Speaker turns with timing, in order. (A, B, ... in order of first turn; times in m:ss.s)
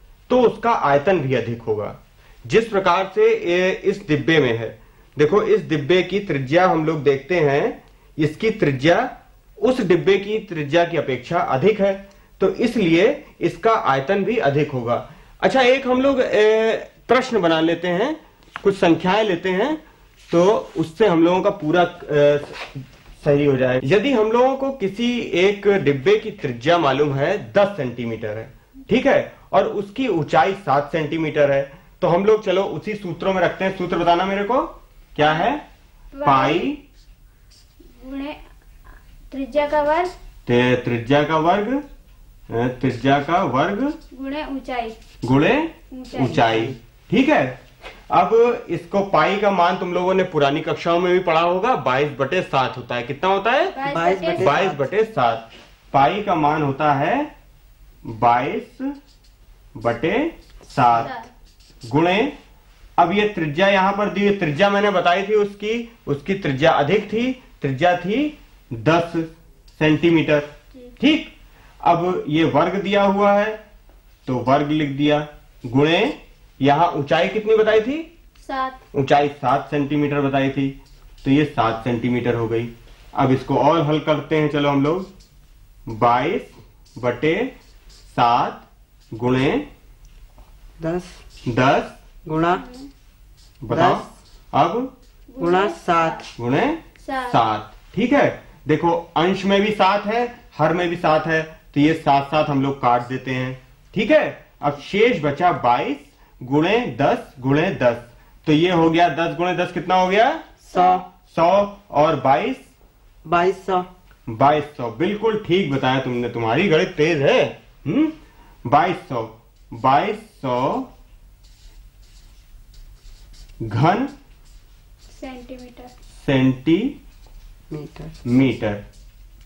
0:00.3-0:35.6 A
0:36.1-0:36.7 B
0:36.2-0:36.8 A
0:38.0-0:38.4 B
0:39.3-0:40.1 B
0:40.5-0:41.8 A
0:42.5-0:44.0 A
0:44.1-0:45.0 B
0:45.2-0:47.6 A
0:45.9-0:46.7 B
0:48.1-0:53.8 A
0:53.6-0:54.7 B
0:53.8-0:54.9 C
0:54.3-0:57.3 A
0:58.0-0:58.9 A
0:59.8-1:01.1 A
1:00.9-1:01.3 B
1:01.9-1:02.4 A
1:03.0-1:13.6 A
1:14.2-1:18.1 A
1:18.4-1:18.8 B
1:18.9-1:25.1 A
1:25.9-1:27.5 A
1:28.1-1:29.7 A
1:30.8-1:31.2 C
1:31.5-1:32.0 A
1:32.3-1:32.6 C
1:32.5-1:32.9 B
1:33.6-1:34.9 A
1:33.7-1:34.1 C
1:35.3-1:36.3 B
1:35.4-1:36.3 C
1:36.4-1:50.4 A
1:37.0-1:37.4 B
1:50.7-1:51.0 B
1:50.7-1:51.0 C
1:51.3-1:52.7 A
1:53.2-1:53.9 C
1:54.3-1:58.1 A
1:58.7-2:00.9 A
2:03.6-2:04.1 A
2:05.1-2:05.9 B
2:06.2-2:07.0 A
2:07.7-2:08.1 C
2:08.2-2:08.8 A